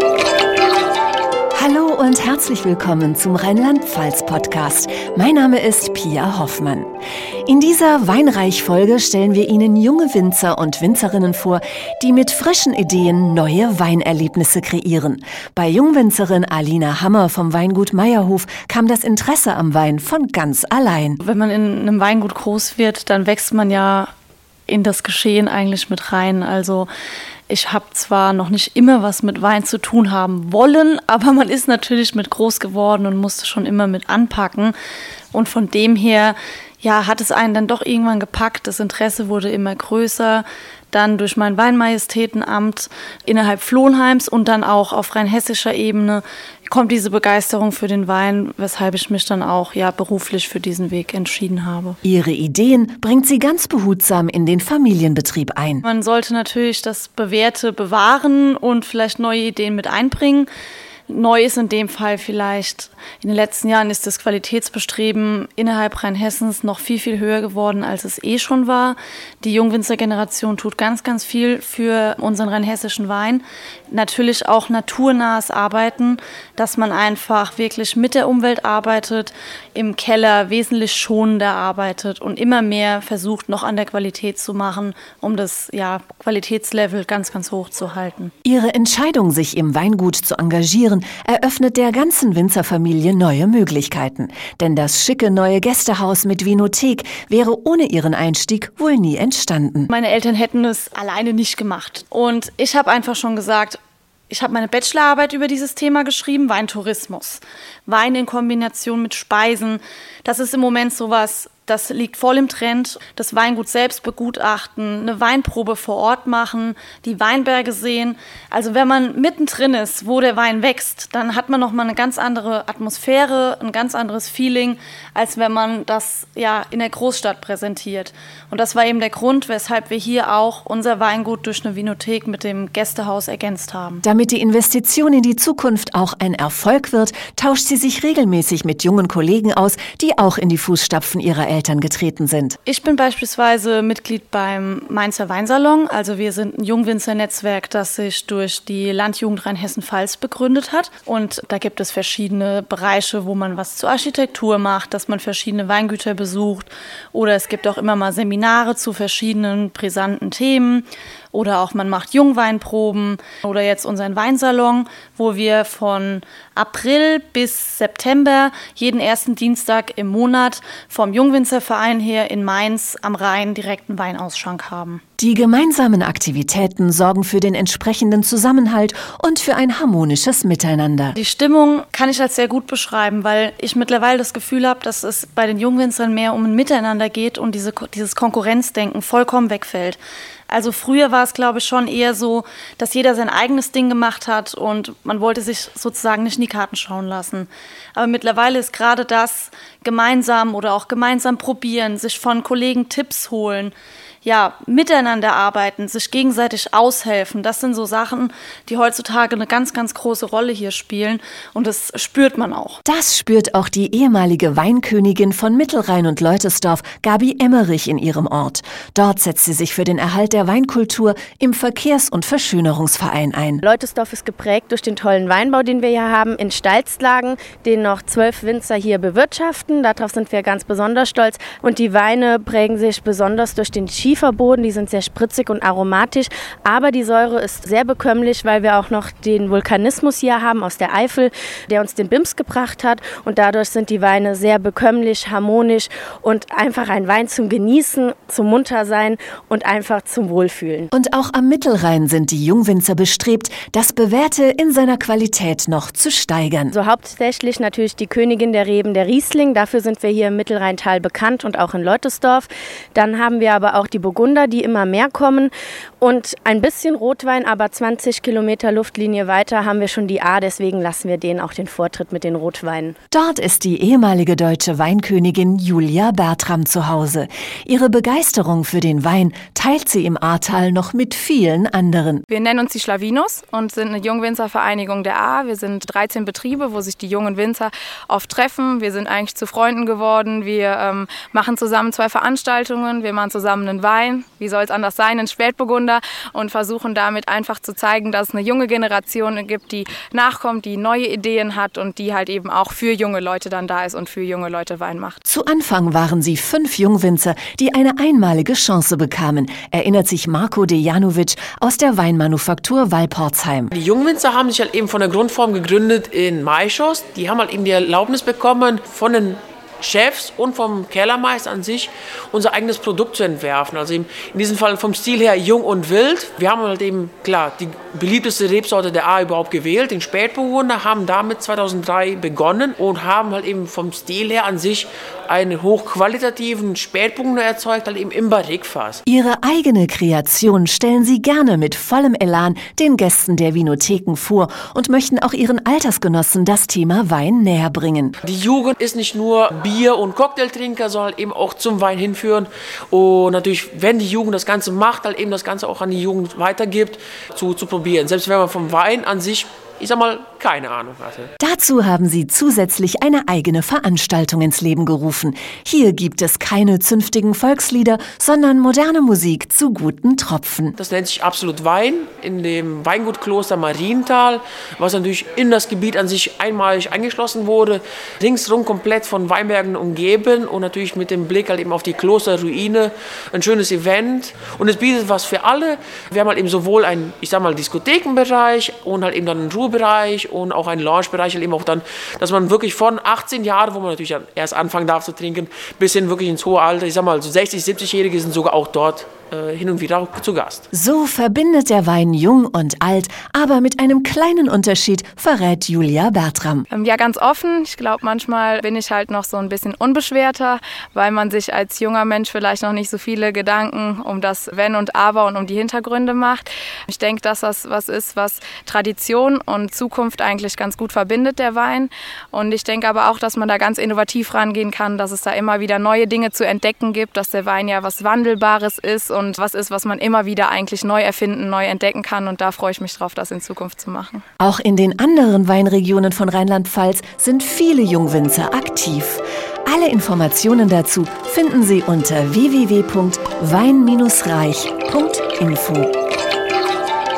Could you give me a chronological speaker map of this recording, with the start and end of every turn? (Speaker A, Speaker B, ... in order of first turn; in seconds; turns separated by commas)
Speaker A: 1.6-6.9, Speaker A: 7.5-21.2, Speaker B: 21.2-24.1, Speaker B: 24.7-26.9, Speaker B: 27.5-34.8, Speaker B: 35.3-51.9, Speaker A: 52.0-55.8, Speaker B: 55.9-60.5, Speaker B: 61.1-88.3, Speaker A: 88.5-99.9, Speaker B: 99.9-134.0, Speaker A: 134.0-142.6, Speaker B: 142.7-175.0, Speaker A: 175.2-181.1, Speaker B: 181.2-212.8, Speaker A: 212.8-223.6, Speaker C: 223.6-250.9, Speaker A: 250.9-256.8, Speaker C: 256.7-272.9, Speaker A: 273.1-282.2, Speaker D: 282.3-305.2, Speaker A: 305.2-313.7, Speaker E: 313.7-339.0, Speaker A: 339.1-348.1, Speaker E: 348.2-361.3, Speaker A: 361.4-370.8, Speaker E: 370.8-400.7, Speaker A: 400.7-406.6, Speaker D: 406.7-434.2, Speaker A: 434.4-445.9